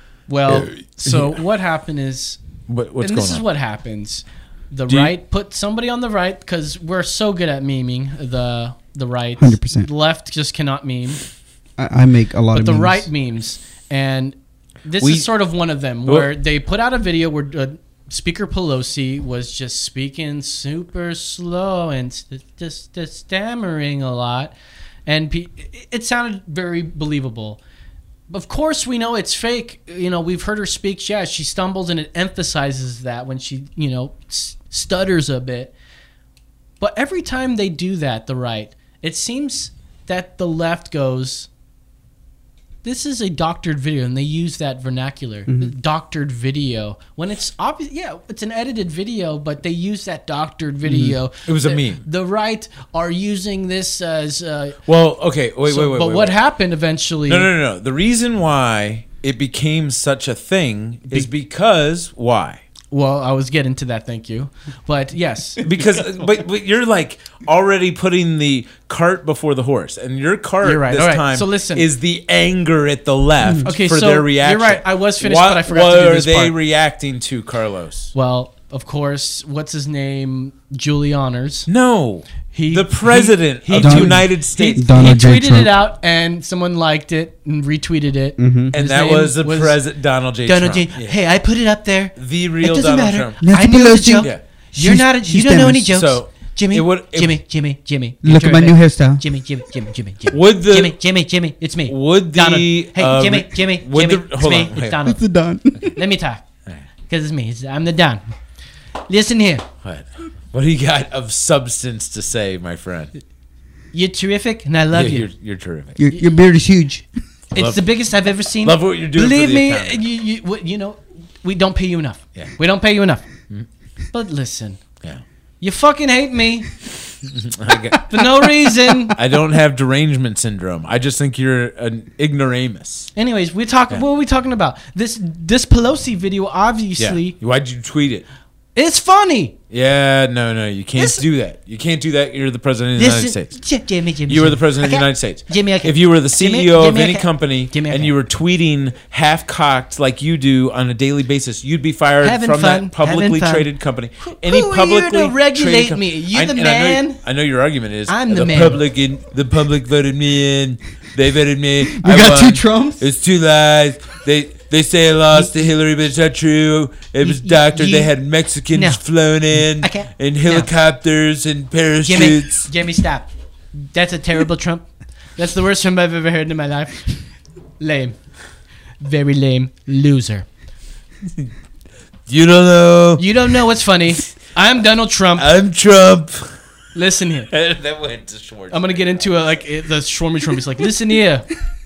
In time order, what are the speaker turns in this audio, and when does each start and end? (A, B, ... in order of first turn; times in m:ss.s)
0:00.3-0:02.4 A
0:00.5-0:01.4 B
0:02.7-0:03.4 B
0:03.0-0:11.2 A
0:04.9-0:05.1 B
0:09.4-0:09.9 C
0:11.8-0:13.1 C
0:12.5-0:24.5 A
0:15.0-0:15.3 B
0:16.1-0:16.3 B
0:25.1-0:27.6 A
0:28.3-0:35.7 A
0:36.8-0:41.5 A
0:42.8-0:54.8 A
0:45.5-0:45.7 C
0:51.4-0:52.0 B
0:54.9-0:56.4 B
0:55.7-0:57.5 A
0:57.3-1:02.6 B
1:02.9-1:05.6 A
1:05.6-1:18.1 B
1:10.6-1:11.9 A
1:13.6-1:16.5 A
1:18.1-1:21.7 A
1:21.7-1:25.3 B
1:22.5-1:29.8 A
1:23.7-1:25.8 C
1:28.4-1:28.8 C
1:28.7-1:31.2 B
1:30.4-1:45.2 A
1:32.2-1:33.4 B
1:33.4-1:36.0 C
1:35.8-1:37.4 B
1:38.2-1:39.2 C
1:40.3-1:41.0 B
1:41.9-1:45.1 B
1:45.0-1:45.9 C
1:45.9-1:46.4 A
1:47.1-1:48.2 A
1:49.1-1:49.6 A
1:49.8-1:53.1 B
1:53.9-1:55.3 A
1:54.9-1:56.0 B
1:56.0-1:57.1 C
1:57.6-1:57.9 B
1:57.6-2:03.3 A
1:58.6-2:00.0 B
2:04.1-2:04.8 A
2:05.6-2:06.7 A
2:07.2-2:08.4 B
2:08.1-2:09.2 A
2:09.2-2:13.1 B
2:13.2-2:17.4 A
2:17.0-2:18.3 B
2:18.8-2:19.5 A
2:19.7-2:23.6 B
2:21.0-2:21.2 A
2:23.0-2:28.1 A
2:24.2-2:52.7 B
2:32.2-2:33.7 A
2:34.2-2:37.2 A
2:38.1-2:38.8 A
2:41.8-2:43.1 C
2:47.2-2:48.1 A
2:48.7-2:49.0 A
2:49.7-2:50.7 A
2:52.0-2:57.2 A
2:57.8-2:58.2 A
2:59.0-3:00.5 A
3:02.3-3:03.3 B
3:03.2-3:05.5 A
3:05.4-3:06.6 B
3:07.0-3:07.5 A
3:07.5-3:09.4 B
3:08.7-3:11.5 A